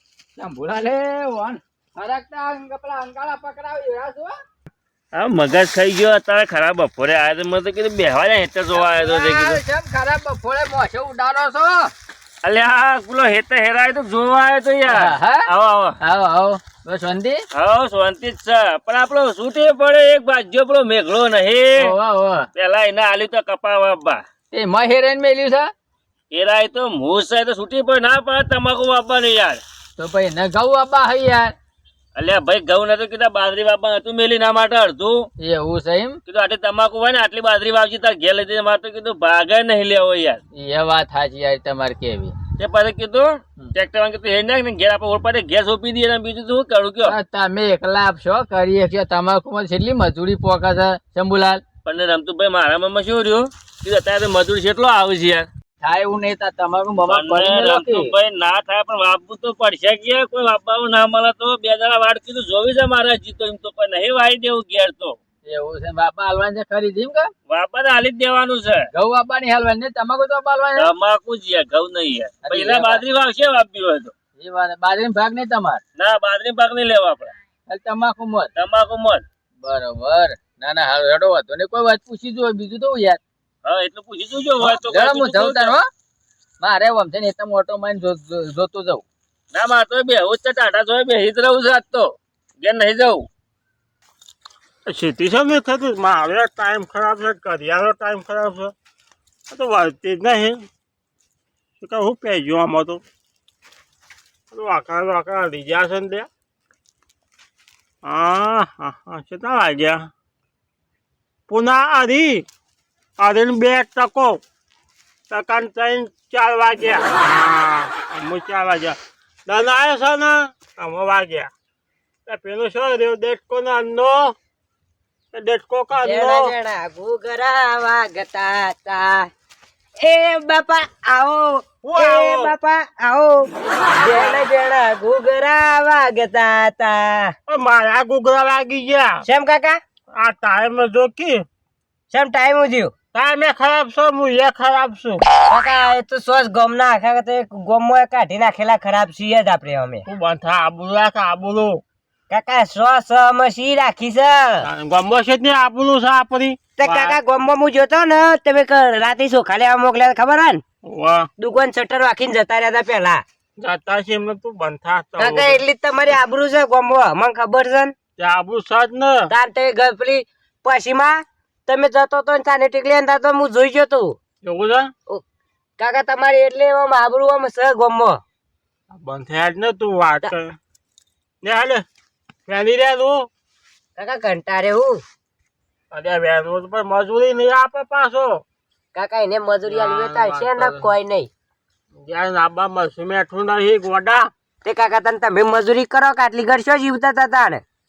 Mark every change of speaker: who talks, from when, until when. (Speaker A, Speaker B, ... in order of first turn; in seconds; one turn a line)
Speaker A: 0.4-4.3
Speaker B: 5.1-9.6
Speaker A: 8.7-11.9
Speaker B: 12.4-15.9
Speaker A: 14.9-15.4
Speaker A: 16.0-17.4
Speaker B: 17.5-21.9
Speaker A: 21.8-22.5
Speaker B: 22.5-24.2
Speaker A: 24.5-25.7
Speaker B: 26.3-29.6
Speaker A: 30.0-31.5
Speaker B: 32.1-35.2
Speaker A: 35.4-36.2
Speaker B: 36.2-40.4
Speaker A: 40.5-42.4
Speaker B: 42.6-47.1
Speaker A: 47.0-51.6
Speaker B: 51.8-55.5
Speaker A: 55.8-58.1
Speaker B: 57.0-65.2
Speaker A: 65.5-67.3
Speaker B: 67.5-68.8
Speaker A: 68.9-70.9
Speaker B: 70.8-74.1
Speaker A: 72.4-73.0
Speaker A: 74.4-75.8
Speaker B: 76.0-77.3
Speaker A: 77.7-78.5
Speaker B: 78.5-79.2
Speaker A: 79.6-83.2
Speaker B: 83.6-85.8
Speaker A: 84.6-85.9
Speaker A: 86.6-89.0
Speaker B: 89.5-93.3
Speaker C: 94.8-98.7
Speaker C: 99.5-100.7
Speaker C: 101.8-103.0
Speaker C: 104.5-106.3
Speaker C: 108.0-110.1
Speaker C: 111.5-112.5
Speaker C: 113.2-114.4
Speaker C: 115.3-121.5
Speaker C: 122.2-124.3
Speaker C: 125.3-126.5
Speaker D: 125.9-129.3
Speaker D: 130.0-137.3
Speaker C: 131.8-132.5
Speaker C: 137.5-139.2
Speaker D: 139.2-139.8
Speaker C: 140.1-141.4
Speaker D: 142.1-142.9
Speaker C: 143.1-145.2
Speaker D: 145.4-150.1
Speaker C: 150.1-151.8
Speaker D: 152.3-154.7
Speaker C: 154.6-157.2
Speaker D: 156.8-160.6
Speaker C: 160.8-161.3
Speaker D: 161.4-163.2
Speaker C: 163.6-165.6
Speaker D: 165.2-167.9
Speaker C: 168.2-169.2
Speaker D: 169.3-174.2
Speaker C: 174.4-174.9
Speaker D: 175.8-178.2
Speaker C: 178.9-180.6
Speaker C: 181.4-181.8
Speaker C: 182.5-183.3
Speaker D: 184.0-185.0
Speaker C: 185.9-188.4
Speaker D: 188.9-191.3
Speaker C: 189.7-190.9
Speaker C: 191.9-194.3
Speaker D: 194.6-197.6